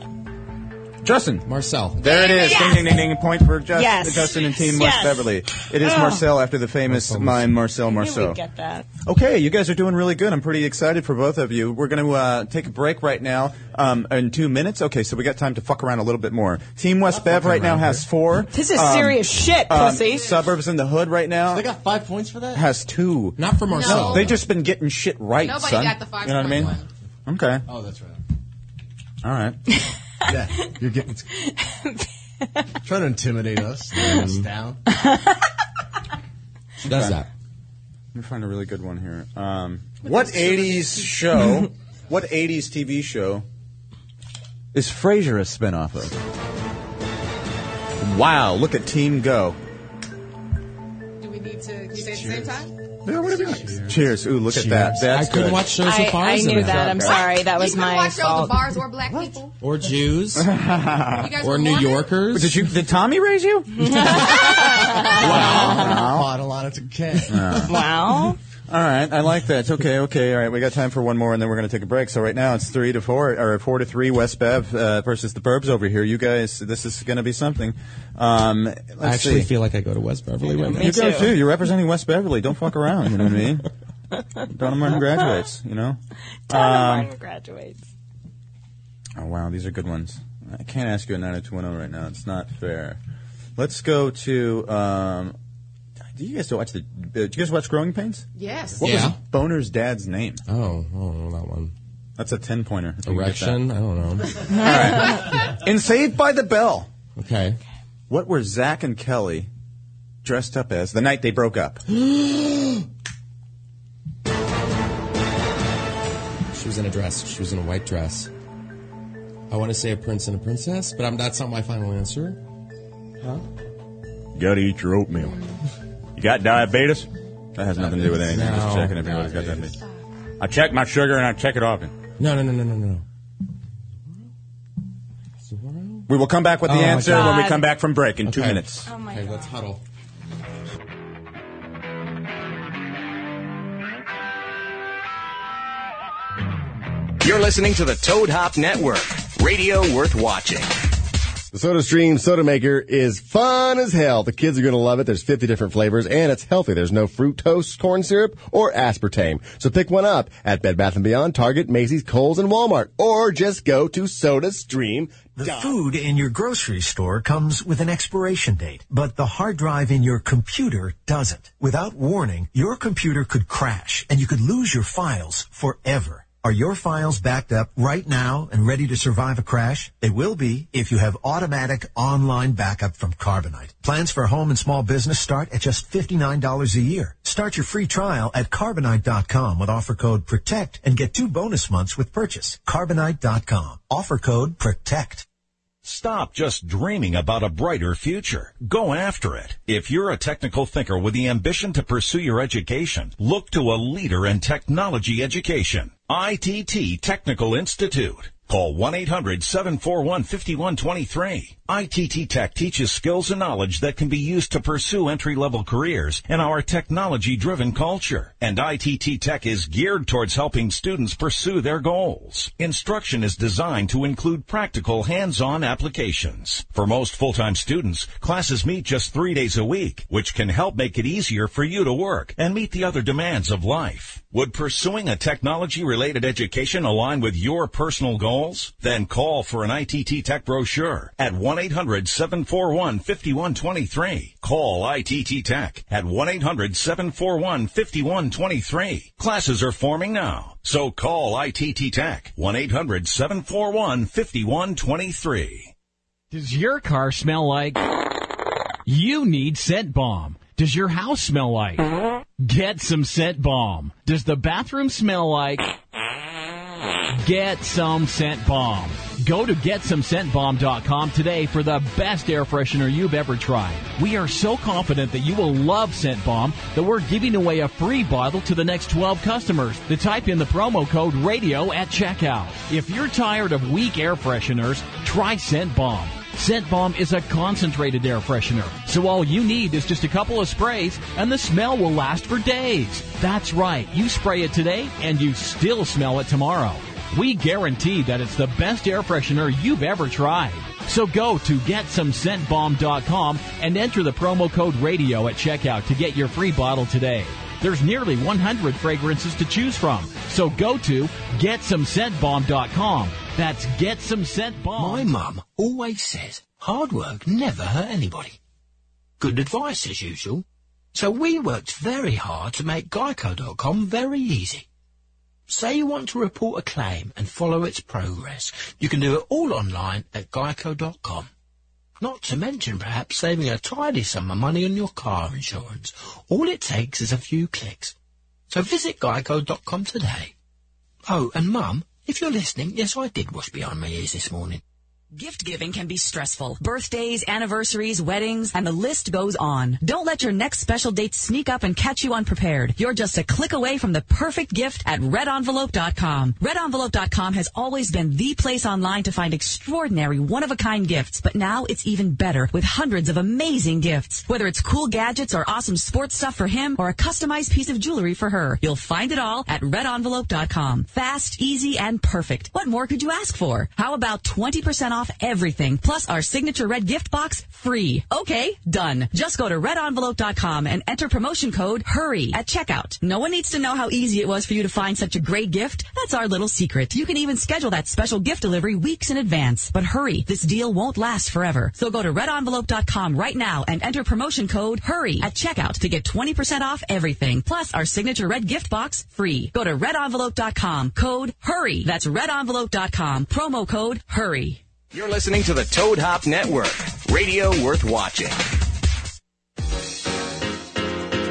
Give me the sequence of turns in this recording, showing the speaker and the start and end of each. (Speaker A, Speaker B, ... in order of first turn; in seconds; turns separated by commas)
Speaker A: 1.0-8.4, Speaker B: 1.4-2.0, Speaker C: 2.0-2.8, Speaker D: 2.3-2.9, Speaker D: 3.7-6.2, Speaker B: 6.9-7.6, Speaker D: 7.9-8.8, Speaker A: 9.0-21.7, Speaker E: 17.1-18.0, Speaker D: 18.5-20.3, Speaker C: 20.0-20.4, Speaker E: 21.5-22.6, Speaker A: 22.5-27.6, Speaker B: 23.4-24.4, Speaker C: 23.7-24.3, Speaker C: 25.4-26.9, Speaker E: 27.7-28.2, Speaker A: 29.2-29.6, Speaker E: 30.2-31.3, Speaker D: 31.5-32.0, Speaker E: 32.8-34.8, Speaker B: 34.0-34.5, Speaker B: 36.8-37.3, Speaker A: 36.9-37.2, Speaker A: 38.1-43.4, Speaker C: 40.0-41.4, Speaker A: 44.7-46.1, Speaker A: 48.0-49.6, Speaker C: 51.2-52.7, Speaker E: 51.9-52.7, Speaker A: 53.0-55.6, Speaker E: 53.2-55.1, Speaker C: 53.3-53.6, Speaker B: 55.1-57.2, Speaker D: 55.8-58.8, Speaker A: 56.7-57.1, Speaker C: 57.1-59.5, Speaker A: 59.1-59.3, Speaker B: 59.6-60.5, Speaker A: 60.3-61.3, Speaker C: 61.1-62.2, Speaker B: 61.4-62.7, Speaker A: 62.3-64.2, Speaker D: 63.8-66.0, Speaker E: 65.2-67.7, Speaker B: 65.2-65.7, Speaker A: 65.2-66.3, Speaker A: 67.3-67.8, Speaker D: 67.7-68.4, Speaker A: 68.7-79.5, Speaker B: 79.0-81.2, Speaker D: 80.5-81.4, Speaker A: 80.8-83.7, Speaker A: 84.5-87.1, Speaker D: 86.5-87.8, Speaker A: 89.2-93.0, Speaker A: 93.6-95.3, Speaker A: 96.1-98.2, Speaker C: 98.3-98.9, Speaker A: 98.8-100.4, Speaker B: 98.8-99.2, Speaker B: 100.5-101.7, Speaker A: 102.2-103.6, Speaker B: 103.0-104.5, Speaker A: 104.5-106.9, Speaker B: 107.2-107.6, Speaker A: 108.1-109.5, Speaker A: 110.2-111.8, Speaker B: 111.9-112.8, Speaker B: 116.5-118.3, Speaker B: 119.5-122.4, Speaker A: 124.3-125.4, Speaker A: 126.2-129.8, Speaker B: 127.9-129.8, Speaker A: 130.4-131.9, Speaker B: 132.2-133.0, Speaker B: 135.4-136.1, Speaker A: 136.1-138.9, Speaker B: 136.6-137.5, Speaker D: 137.0-137.6, Speaker B: 138.2-139.8, Speaker D: 138.9-139.6, Speaker F: 147.2-150.8, Speaker G: 151.5-165.3, Speaker H: 165.3-195.2, Speaker I: 195.8-255.7, Speaker J: 256.3-257.9, Speaker J: 258.9-265.7, Speaker J: 267.2-315.1, Speaker K: 314.8-318.4, Speaker K: 319.2-324.6, Speaker K: 325.5-331.3, Speaker K: 332.0-337.9, Speaker K: 338.5-340.3, Speaker K: 341.1-344.6, Speaker L: 345.1-404.6, Speaker F: 404.9-408.5